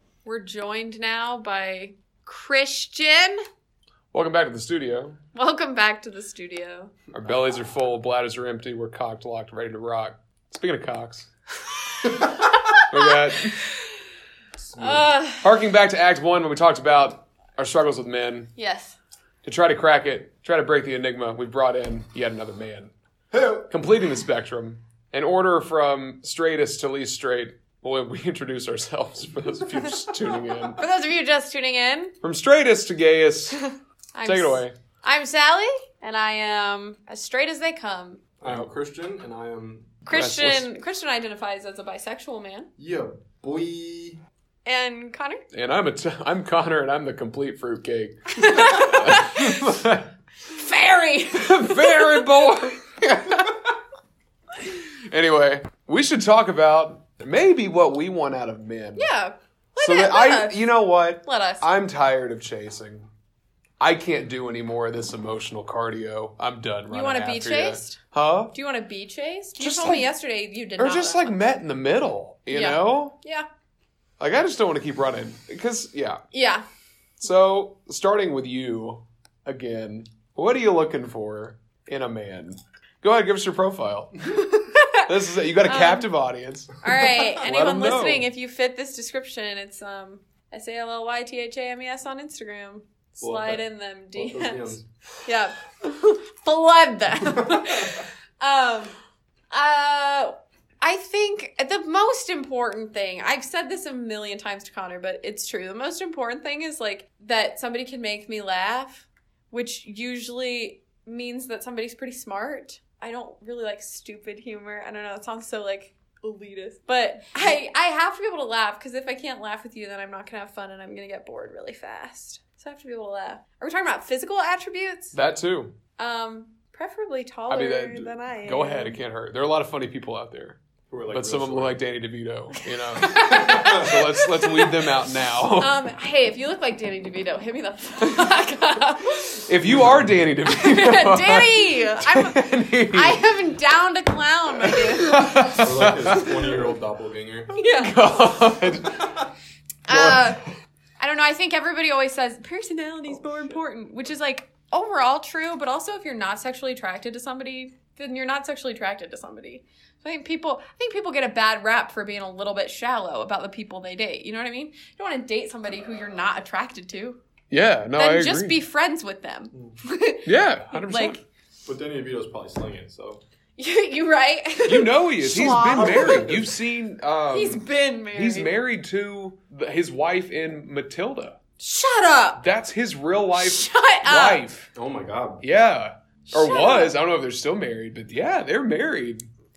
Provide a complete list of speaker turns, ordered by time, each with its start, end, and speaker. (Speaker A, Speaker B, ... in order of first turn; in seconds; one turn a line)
Speaker A: 0.2-3.4
Speaker B: 4.1-5.2
Speaker A: 5.3-6.9
Speaker B: 7.1-11.3
Speaker A: 12.1-13.7
Speaker B: 12.9-13.6
Speaker A: 14.8-15.4
Speaker C: 14.8-15.0
Speaker B: 14.8-18.5
Speaker A: 18.6-19.0
Speaker B: 19.4-22.9
Speaker C: 23.3-23.7
Speaker B: 23.7-30.8
Speaker A: 30.4-32.1
Speaker B: 32.2-33.6
Speaker A: 33.6-38.2
Speaker B: 34.2-34.8
Speaker C: 38.4-40.0
Speaker A: 40.1-42.7
Speaker B: 40.1-40.7
Speaker C: 42.8-44.2
Speaker A: 44.6-45.4
Speaker B: 45.5-50.1
Speaker A: 48.4-49.6
Speaker A: 50.4-52.3
Speaker B: 51.3-53.5
Speaker B: 54.6-59.1
Speaker A: 59.0-60.7
Speaker B: 59.8-63.1
Speaker A: 61.2-61.7
Speaker B: 63.8-68.5
Speaker A: 66.9-71.4
Speaker B: 69.6-70.1
Speaker B: 70.8-73.2
Speaker A: 72.5-73.5
Speaker B: 74.2-76.2
Speaker A: 76.3-76.6
Speaker B: 77.2-84.4
Speaker A: 84.7-86.1
Speaker B: 85.0-88.3
Speaker A: 86.8-94.7
Speaker C: 93.2-94.8
Speaker A: 95.2-98.9
Speaker C: 97.3-98.0
Speaker A: 99.5-125.2
Speaker B: 125.1-125.7
Speaker A: 126.0-129.0
Speaker B: 127.5-135.8
Speaker C: 130.9-131.8
Speaker A: 132.6-134.9
Speaker C: 133.4-133.9
Speaker A: 135.5-139.5
Speaker B: 139.4-143.2
Speaker C: 139.7-140.2
Speaker A: 140.5-145.6
Speaker B: 144.7-146.5
Speaker C: 145.5-147.6
Speaker A: 147.5-148.1
Speaker B: 147.6-149.1
Speaker C: 148.9-149.3
Speaker A: 149.9-150.4
Speaker B: 149.9-150.4
Speaker A: 151.0-167.2
Speaker B: 167.5-168.6
Speaker A: 167.9-171.2
Speaker B: 170.2-171.2
Speaker C: 171.7-173.2
Speaker A: 173.6-176.3
Speaker B: 174.7-181.4
Speaker C: 175.6-176.6
Speaker A: 177.3-178.6
Speaker A: 181.6-182.4
Speaker B: 182.4-184.7
Speaker A: 183.3-184.4
Speaker C: 184.8-185.4
Speaker B: 185.4-189.3
Speaker A: 186.3-186.9